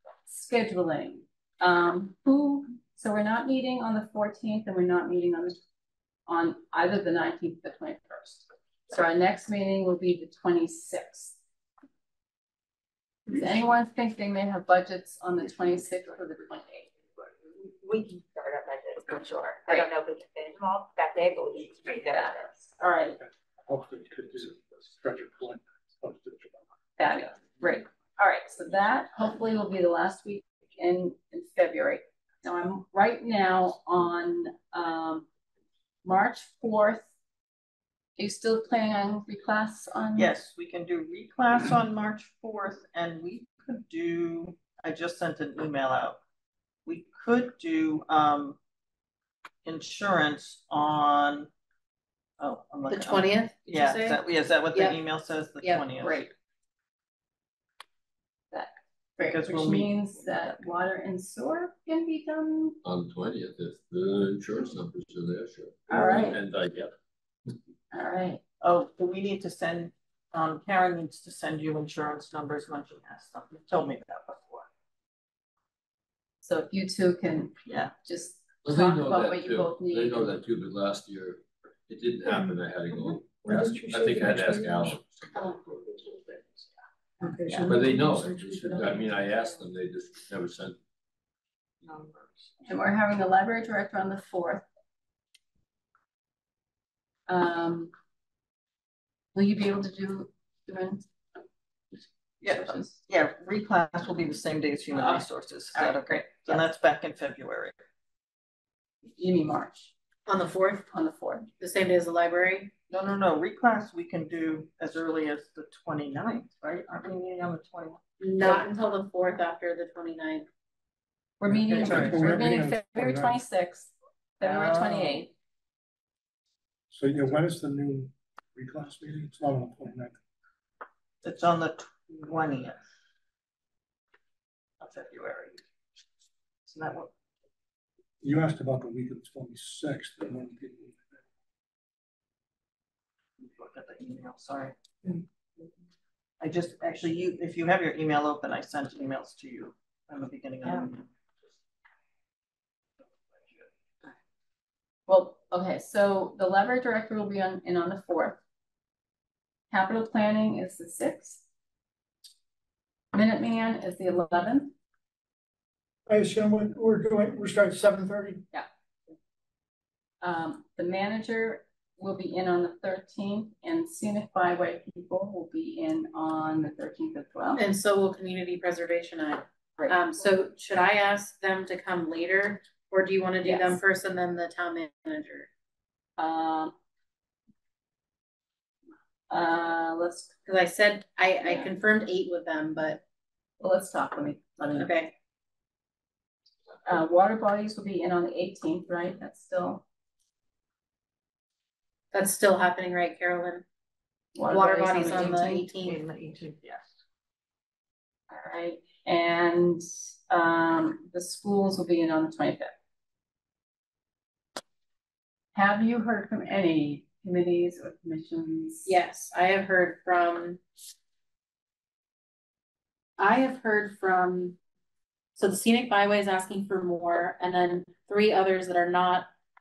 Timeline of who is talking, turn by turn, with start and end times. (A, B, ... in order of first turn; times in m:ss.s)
0:00.3-0:05.6 A
0:06.3-0:11.4 A
0:13.3-0:16.9 A
0:17.6-0:22.7 B
0:22.8-0:23.2 A
0:23.2-0:26.6 C
0:27.0-0:35.2 A
0:36.0-0:37.1 A
0:38.2-0:40.3 A
0:40.2-0:46.2 D
0:46.8-0:48.6 D
0:49.6-0:51.5 D
0:52.4-0:56.2 D
0:52.9-0:54.2 E
0:54.7-0:55.0 E
0:55.6-0:56.2 E
0:58.5-1:02.8 A
0:59.2-0:59.9 D
1:02.8-1:06.9 F
1:05.9-1:06.4 A
1:07.9-1:08.4 A
1:08.6-1:14.7 D
1:16.4-1:20.4 A
1:17.6-1:17.9 D
1:18.6-1:26.4 F
1:22.2-1:22.6 G
1:23.3-1:25.5 G
1:27.2-1:29.2 G
1:27.6-1:30.8 F
1:31.8-1:32.4 D
1:32.6-1:34.6 A
1:37.3-1:37.9 A
1:39.3-1:41.0 A
1:42.4-1:43.0 A
1:42.4-1:47.7 D
1:44.9-1:46.7 A
1:49.2-1:49.9 A
1:50.3-1:50.9 E
1:50.9-1:51.5 A
1:51.6-1:52.7 E
1:52.9-1:58.5 D
1:58.2-2:00.5 E
2:01.4-2:05.3 A
2:01.5-2:03.4 C
2:01.8-2:02.1 D
2:04.4-2:05.2 D
2:06.9-2:10.2 C
2:11.2-2:12.8 D
2:14.8-2:15.6 D
2:16.6-2:17.1 D
2:18.2-2:21.2 C
2:23.4-2:24.7 D
2:26.4-2:31.1 D
2:35.1-2:38.4 A
2:39.7-2:41.4 A
2:43.1-2:44.7 A
2:46.1-2:48.4 G
2:50.2-2:57.6 A
2:57.6-3:05.5 E
2:59.8-3:00.0 A
3:03.4-3:03.8 A
3:06.2-3:06.7 A
3:09.3-3:10.3 A
3:10.4-3:13.0 E
3:11.4-3:11.7 A
3:13.6-3:15.0 A
3:14.8-3:15.1 E
3:16.8-3:19.8 A
3:22.1-3:23.6 E
3:24.3-3:25.7 A
3:24.4-3:26.0 E
3:25.7-3:26.9 D
3:28.3-3:32.7 A
3:35.5-3:38.9 A
3:38.8-3:40.6 E
3:43.2-3:44.6 E
3:45.4-3:49.3 E